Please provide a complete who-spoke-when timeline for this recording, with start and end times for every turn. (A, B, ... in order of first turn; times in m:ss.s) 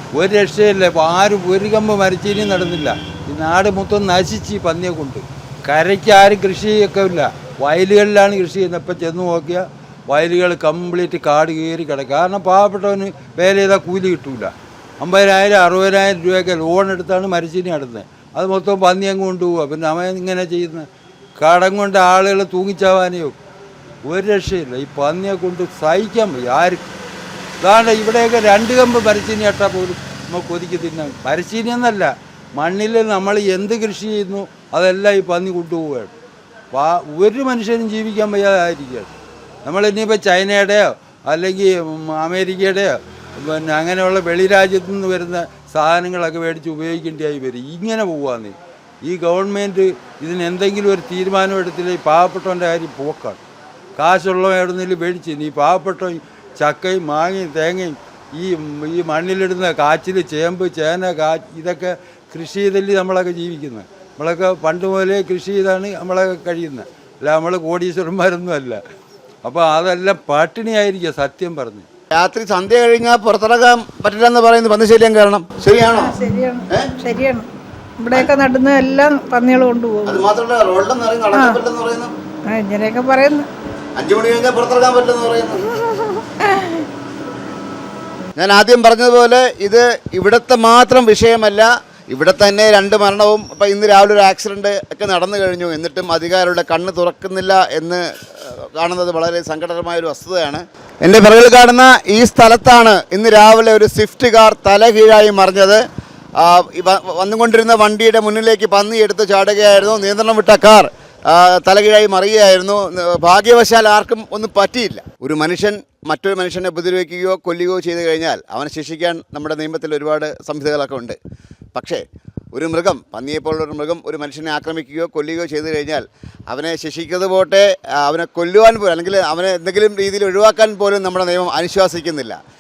0:00.1-0:20.9 A
0:21.4-0:23.4 A
0:24.0-0:27.0 A
0:27.6-0:36.1 A
0:36.7-0:39.1 A
0:39.6-0:53.4 A
0:54.0-1:08.8 A
1:09.4-1:11.9 A
1:12.1-1:16.1 B
1:15.9-1:17.5 C
1:18.0-1:20.3 C
1:20.1-1:22.1 B
1:21.3-1:21.6 C
1:22.5-1:23.5 C
1:24.0-1:26.1 B
1:26.4-1:26.8 C
1:28.4-1:45.8 B
1:46.4-2:01.2 B
2:01.8-2:02.0 B
2:02.5-2:12.4 B